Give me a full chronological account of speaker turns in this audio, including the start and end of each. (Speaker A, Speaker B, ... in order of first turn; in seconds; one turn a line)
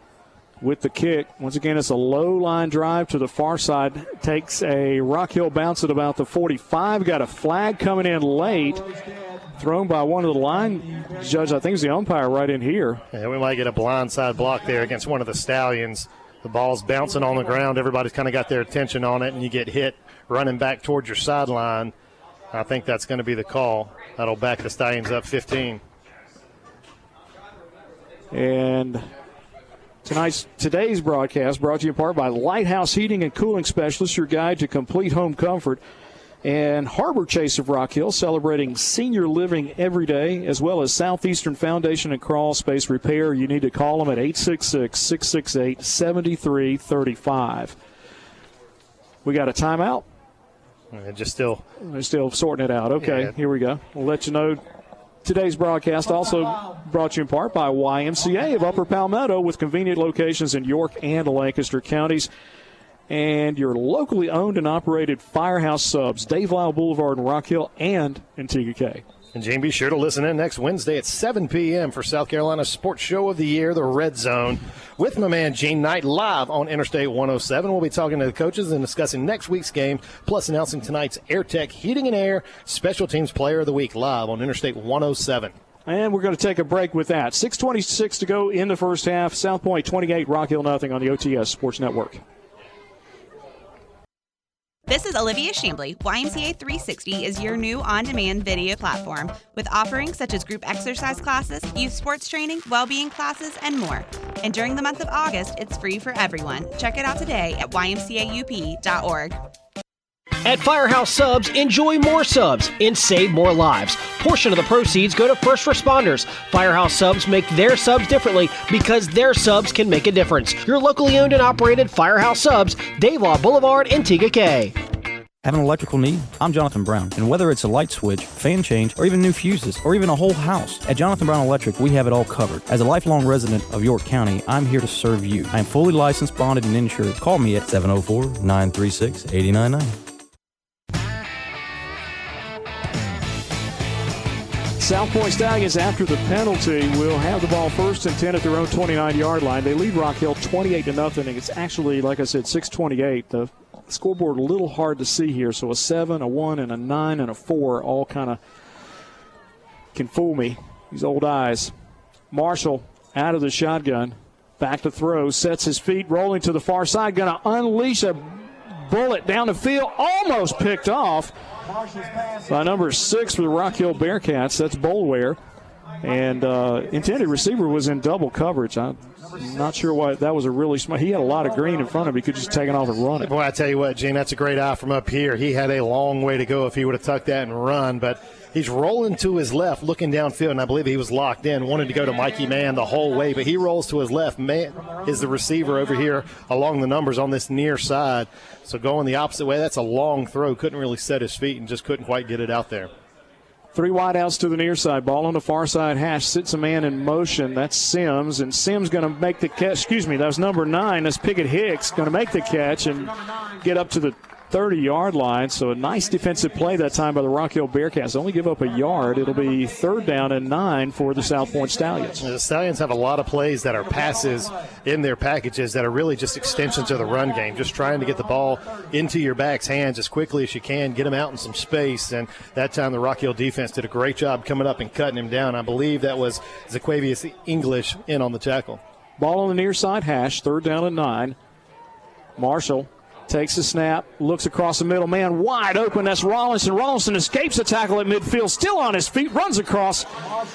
Speaker A: 0.6-8.8
Speaker A: 9.6-13.0
Speaker B: 13.1-21.9
Speaker B: 22.5-25.8
Speaker A: 28.3-29.1
Speaker A: 30.0-35.8
Speaker A: 36.4-47.8
Speaker A: 49.2-50.1
Speaker B: 50.9-51.6
Speaker A: 51.8-54.6
Speaker B: 53.0-53.3
Speaker A: 55.2-62.3
Speaker A: 63.1-69.0
Speaker B: 69.3-85.5
Speaker A: 85.8-92.2
Speaker C: 94.9-109.4
Speaker D: 110.4-124.7
Speaker E: 125.4-140.0
Speaker A: 144.8-158.4
Speaker A: 159.9-161.7
Speaker A: 162.3-171.3
Speaker A: 172.5-175.4
Speaker A: 176.0-183.3
Speaker B: 183.2-202.9
Speaker A: 203.7-222.2
Speaker B: 222.2-238.8
Speaker A: 239.2-241.3
Speaker A: 242.4-250.1